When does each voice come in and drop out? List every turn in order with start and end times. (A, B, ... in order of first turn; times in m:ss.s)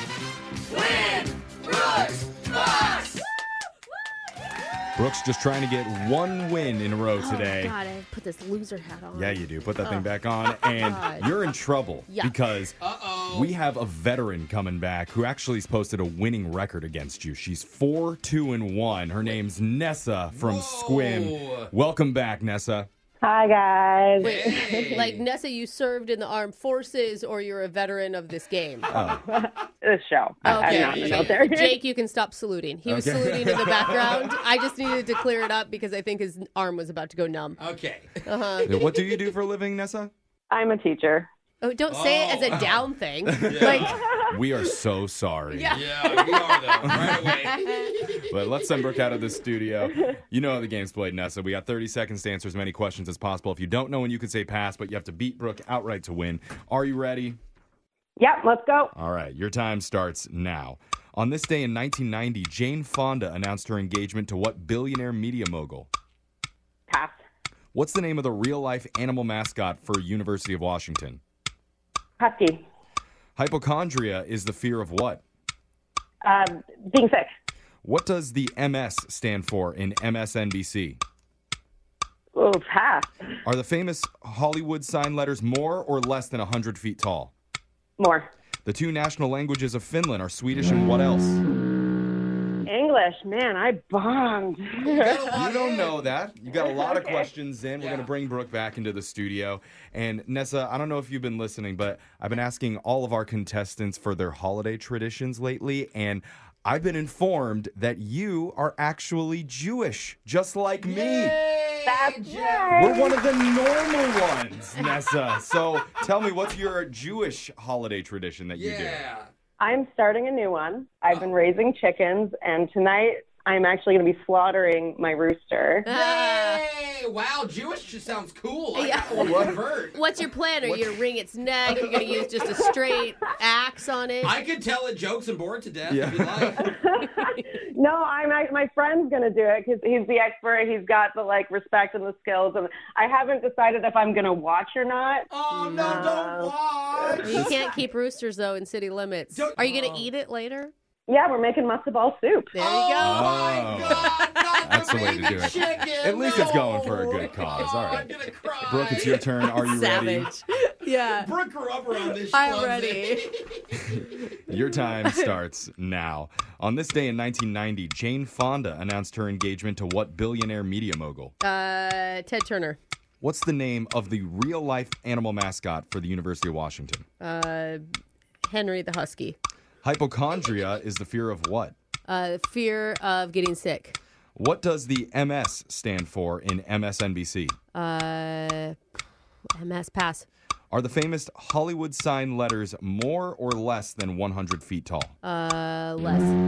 0:00.7-0:03.2 A
0:05.0-0:07.8 B
0:07.2-0:11.3 C
0:09.1-0:12.8 B
0:12.1-0:12.5 C
0:12.8-0:13.6 A
0:13.3-0:22.9 B
0:20.3-0:21.7 A
0:23.2-0:24.9 D
0:24.2-0:25.2 A
0:24.2-0:28.9 C
0:28.9-0:29.2 B
0:29.0-0:31.8 D
0:30.4-0:37.6 C
0:30.5-0:31.5 A
0:32.9-0:34.3 B
0:37.6-0:38.2 A
0:38.3-0:38.8 C
0:38.6-0:40.1 B
0:40.5-0:41.3 D
0:41.6-0:44.2 C
0:41.9-0:44.0 A
0:43.3-0:45.8 B
0:45.5-0:47.0 C
0:45.7-0:48.3 A
0:46.9-0:47.2 B
0:48.3-0:57.4 B
0:58.2-0:58.9 D
0:58.9-1:05.9 B
1:06.9-1:07.2 D
1:07.7-1:11.2 B
1:12.2-1:12.6 D
1:13.4-1:15.2 B
1:16.2-1:17.3 D
1:17.8-1:21.0 B
1:22.4-1:23.1 D
1:23.4-1:27.3 B
1:28.0-1:28.3 D
1:28.6-1:31.4 B
1:32.7-1:35.3 D
1:34.8-1:36.0 A
1:35.3-1:51.4 B
1:36.6-1:37.3 D
1:37.8-1:38.1 A
1:50.8-1:53.0 A
1:51.9-1:53.2 D
1:52.8-1:59.0 B
1:58.6-1:59.3 A
1:59.6-2:05.9 D
2:05.9-2:06.6 C
2:05.9-2:10.0 A
2:08.7-2:14.4 C
2:09.2-2:09.6 B
2:12.0-2:12.8 D
2:14.2-2:16.7 A
2:15.9-2:16.7 B
2:16.6-2:27.4 D
2:25.3-2:27.8 A
2:27.2-2:30.7 C
2:29.3-2:30.1 A
2:31.1-2:32.5 D
2:32.5-2:35.5 C
2:32.6-2:39.2 A
2:33.0-2:38.1 B
2:37.3-2:38.0 C
2:38.6-2:40.3 B
2:39.4-2:41.3 C
2:41.1-2:43.8 A
2:41.9-2:43.3 C
2:43.9-2:51.3 B
2:44.5-2:45.4 C
2:51.4-2:52.8 C
2:53.2-2:57.1 B
2:57.2-2:57.8 C
2:58.4-2:59.4 C
2:59.8-3:01.8 B
3:02.1-3:04.0 C
3:04.4-3:07.6 B
3:07.7-3:08.8 C
3:09.5-3:10.3 C
3:10.7-3:15.2 B
3:15.2-3:16.4 C